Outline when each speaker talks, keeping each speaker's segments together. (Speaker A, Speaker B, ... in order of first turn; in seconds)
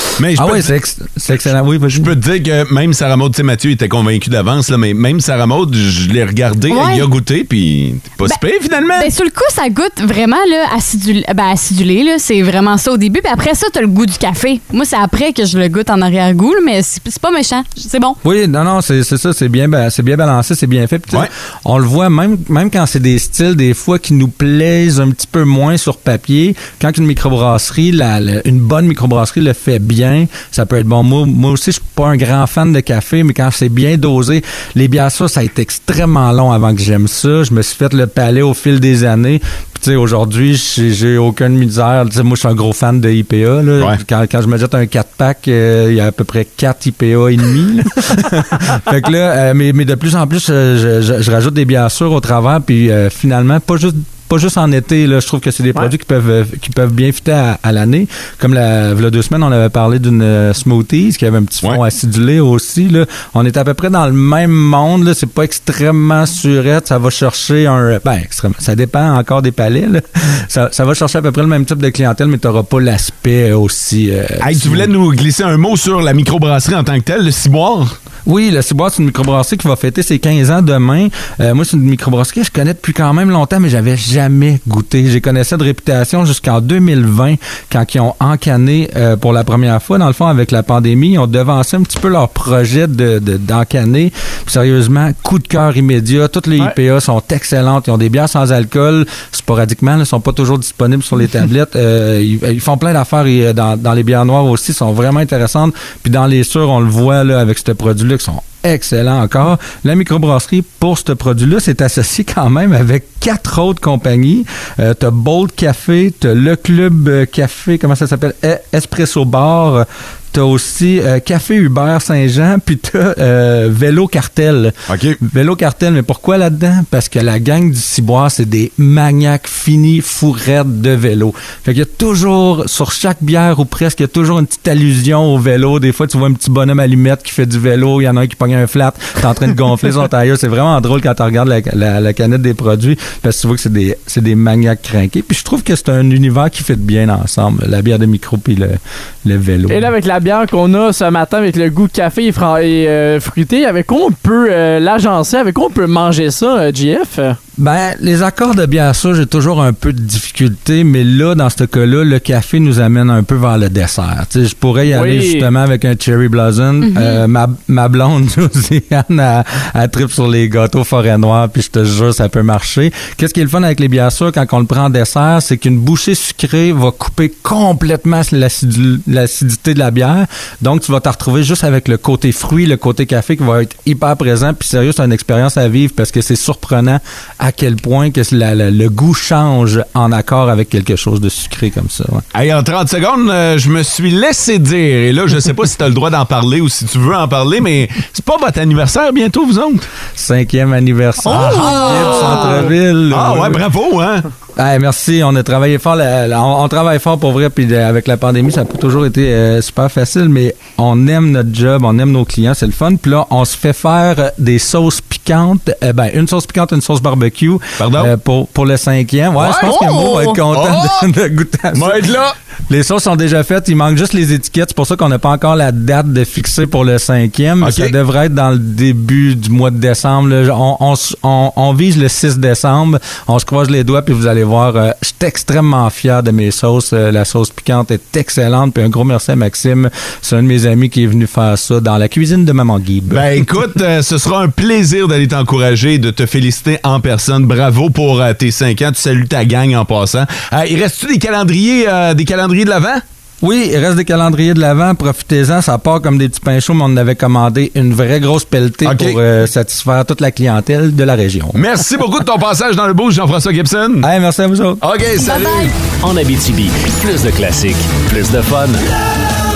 Speaker A: 0.2-0.7, 1.9-9.1, 74.4-78.0, 124.9-125.2, 192.3-199.9, 201.3-204.3, 217.8-218.1, 219.4-219.9, 220.5-221.0, 221.8-222.3, 227.6-227.9, 243.1-253.0, 258.9-259.2, 261.5-264.1, 264.8-265.8
Speaker B: 0.3-2.1, 18.2-74.9, 78.3-149.9, 157.6-192.2, 200.2-203.6, 204.6-222.1, 222.7-243.3, 253.4-261.6, 264.0-264.8
Speaker C: 6.7-7.1, 8.9-18.2, 166.8-167.2, 201.3-202.4, 219.6-220.4, 265.2-265.8
Speaker D: 149.7-157.4, 164.9-165.5, 201.8-202.5
Speaker E: 266.0-268.8